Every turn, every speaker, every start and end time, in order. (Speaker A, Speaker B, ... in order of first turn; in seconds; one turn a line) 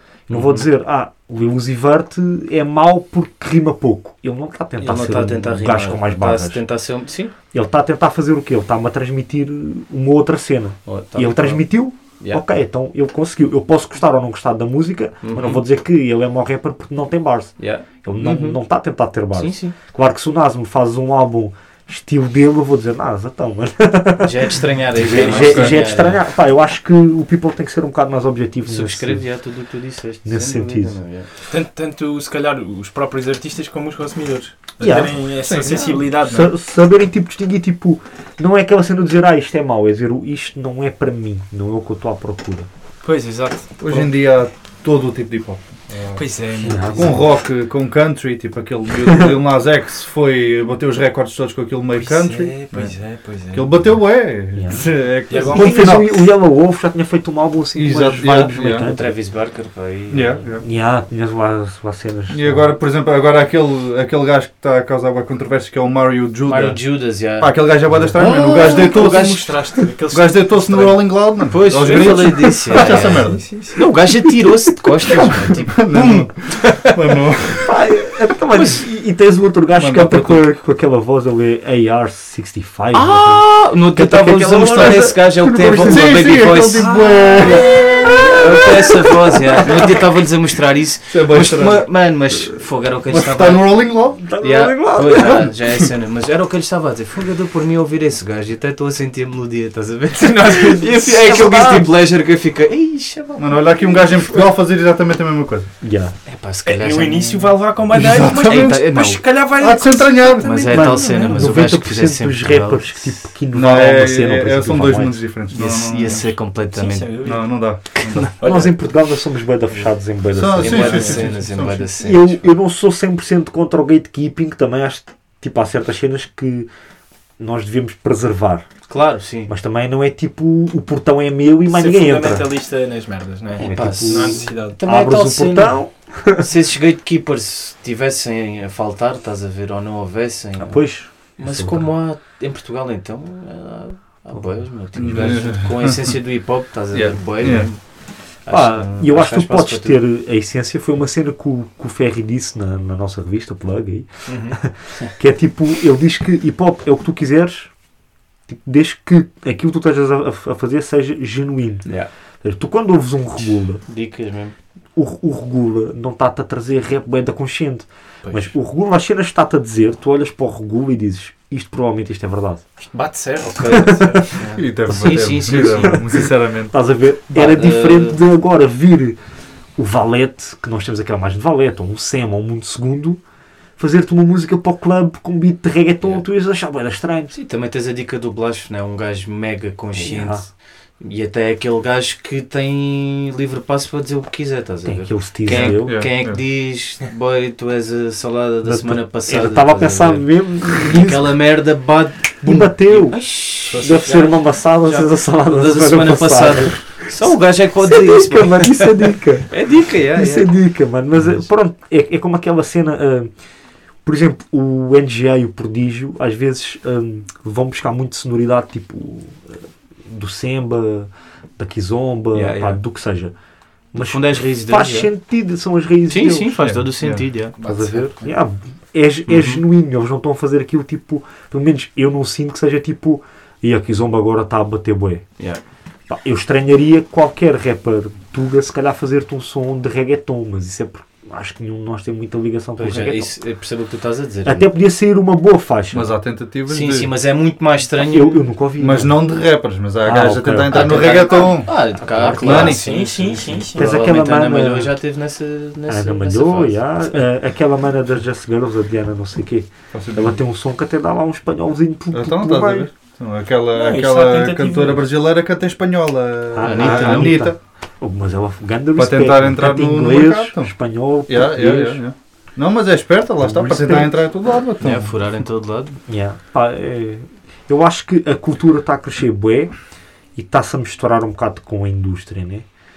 Speaker A: 0.3-6.6
Speaker B: 0.3-0.7
Speaker B: 4.8-7.3
Speaker A: 7.5-29.2
Speaker B: 10.8-12.4
Speaker B: 15.2-15.6
Speaker B: 17.6-18.6
Speaker B: 19.3-19.8
Speaker B: 24.2-26.2
Speaker C: 25.1-25.8
Speaker D: 25.2-25.8
Speaker B: 28.7-31.3
Speaker A: 30.2-31.0
Speaker C: 31.5-36.5
Speaker A: 34.8-35.2
Speaker D: 35.4-36.5
Speaker A: 36.2-42.7
Speaker C: 43.0-44.1
Speaker D: 43.8-46.2
Speaker C: 46.2-47.1
Speaker A: 46.6-47.2
Speaker D: 46.9-53.0
Speaker C: 51.9-53.7
Speaker D: 53.5-56.2
Speaker A: 54.5-59.2
Speaker C: 55.3-56.0
Speaker D: 57.8-58.9
Speaker B: 58.8-60.5
Speaker D: 60.1-60.6
Speaker A: 60.6-62.7
Speaker D: 62.3-66.8
Speaker B: 66.5-69.6
Speaker D: 67.4-69.6
Speaker A: 67.9-68.2
Speaker C: 68.5-71.1
Speaker D: 70.1-73.5
Speaker B: 71.5-77.1
Speaker C: 72.7-73.8
Speaker D: 75.5-77.7
Speaker A: 77.6-90.0
Speaker D: 79.8-80.4
Speaker B: 82.9-104.4
Speaker D: 85.8-88.8
Speaker C: 86.7-87.8
Speaker D: 91.1-91.9
Speaker D: 93.1-94.3
Speaker A: 94.2-95.5
Speaker C: 100.2-101.6
Speaker A: 101.1-101.9
Speaker D: 103.4-105.7
Speaker A: 105.8-106.2
Speaker B: 106.2-109.2
Speaker C: 106.7-111.5
Speaker D: 107.9-111.0
Speaker B: 110.4-113.2
Speaker A: 110.7-115.2
Speaker D: 113.5-116.4
Speaker B: 115.5-117.2
Speaker C: 116.7-117.5
Speaker D: 117.2-118.3
Speaker B: 118.0-118.3
Speaker C: 118.4-118.7
Speaker A: 118.4-121.2
Speaker D: 120.3-121.9
Speaker B: 120.6-122.5
Speaker C: 120.7-121.3
Speaker A: 122.0-126.7
Speaker A: 127.4-128.7
Speaker B: 128.9-129.5
Speaker A: 129.5-132.5
Speaker C: 131.7-134.8
Speaker A: 133.6-136.5
Speaker B: 133.6-135.8
Speaker B: 136.4-150.0
Speaker A: 140.6-141.9
Speaker D: 145.0-146.2
Speaker D: 146.9-147.7
Speaker A: 148.5-157.7
Speaker B: 154.3-155.1
Speaker A: 158.5-161.9
Speaker A: 162.4-163.8
Speaker B: 163.4-164.5
Speaker A: 164.9-172.6
Speaker C: 172.9-174.6
Speaker B: 173.5-176.1
Speaker A: 173.7-174.3
Speaker D: 174.6-176.8
Speaker A: 175.7-179.2
Speaker B: 177.3-178.2
Speaker A: 179.8-183.2
Speaker A: 183.8-187.3
Speaker B: 187.3-203.8
Speaker A: 189.9-190.5
Speaker A: 194.8-196.0
Speaker D: 195.5-196.4
Speaker A: 198.6-201.4
Speaker A: 202.4-207.2
Speaker C: 203.7-205.1
Speaker B: 205.5-210.5
Speaker A: 207.8-213.3
Speaker A: 214.1-223.3
Speaker C: 222.4-222.7
Speaker B: 222.4-222.8
Speaker A: 223.9-226.7
Speaker B: 224.0-225.1
Speaker B: 226.1-228.0
Speaker D: 226.6-227.3
Speaker C: 227.6-228.2
Speaker A: 227.6-235.3
Speaker B: 229.3-229.6
Speaker A: 236.1-243.3
Speaker B: 242.8-244.7
Speaker A: 244.4-246.1
Speaker D: 245.9-247.1
Speaker B: 246.7-248.4
Speaker A: 248.0-249.2
Speaker D: 248.8-251.7
Speaker A: 250.0-251.3
Speaker B: 250.7-257.3
Speaker A: 251.9-252.8
Speaker D: 252.4-252.9
Speaker C: 252.4-253.9
Speaker A: 253.8-255.0
Speaker A: 255.9-262.9
Speaker D: 259.9-260.4
Speaker D: 262.1-267.5
Speaker C: 263.7-265.1
Speaker A: 266.5-272.0
Speaker B: 266.6-267.5
Speaker D: 269.0-270.7
Speaker D: 271.3-275.1
Speaker A: 273.4-274.2
Speaker B: 274.8-276.0
Speaker A: 276.1-279.7
Speaker A: 280.4-282.7